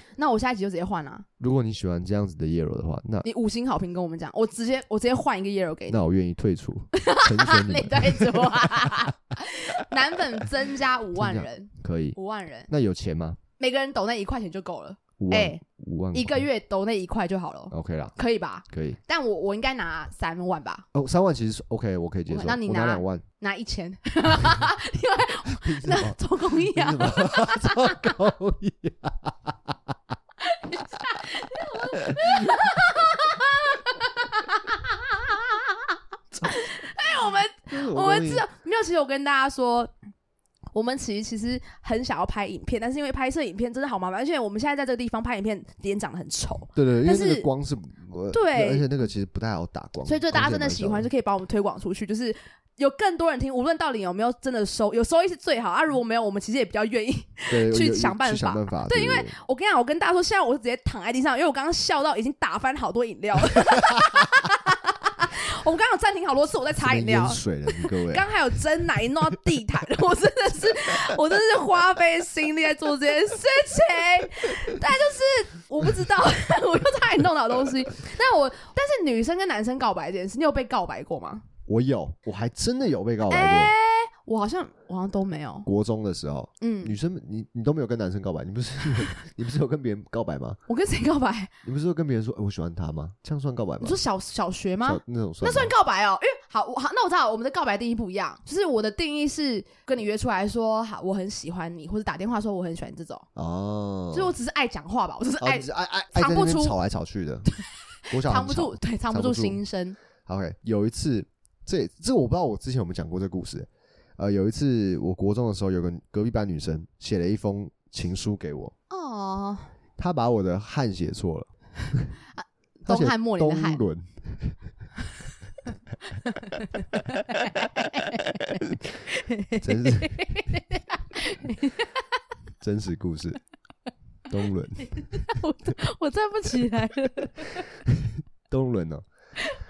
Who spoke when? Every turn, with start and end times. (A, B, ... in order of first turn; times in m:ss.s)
0:00.2-0:01.2 A
0:01.4-0:03.2 B
0:03.2-0:06.0 A
0:05.9-0:09.0 B
0:06.9-0:12.7 A
0:11.2-0:12.2 B
0:12.7-0:13.4 B
0:13.6-0:15.6 A
0:15.2-0:16.4 B
0:16.1-0:20.8 A
0:17.7-0:18.1 B
0:18.7-0:19.0 B
0:20.9-0:23.2 B
0:22.3-0:28.2 A
0:25.5-0:29.8 B
0:30.4-0:39.9 A
0:31.9-0:32.6 B
0:36.4-0:36.8 B
0:37.7-0:38.4 B
0:40.7-0:47.5 A
0:46.7-0:51.1 B
0:48.3-0:48.9 A
0:50.0-1:21.4 A
0:57.5-0:59.3 B
1:06.8-1:08.3 B
1:21.7-1:23.7 B
1:23.3-1:25.7 A
1:25.6-1:30.6 B
1:26.6-1:26.9 A
1:30.7-1:31.5 A
1:31.6-1:34.0 B
1:33.8-1:43.2 A
1:34.8-1:35.7 B
1:43.3-1:44.3 B
1:44.1-1:46.8 A
1:45.4-1:47.5 B
1:48.1-1:50.0 A
1:48.1-1:49.6 B
1:50.2-1:58.7 B
1:58.9-1:59.7 A
2:00.0-2:02.1 B
2:02.4-2:03.8 A
2:02.8-2:04.6 B
2:06.2-2:12.0 A
2:07.6-2:08.6 B
2:09.6-2:10.4 B
2:12.6-2:13.4 B
2:14.3-2:15.4 B
2:14.8-2:17.6 A
2:17.8-2:19.0 B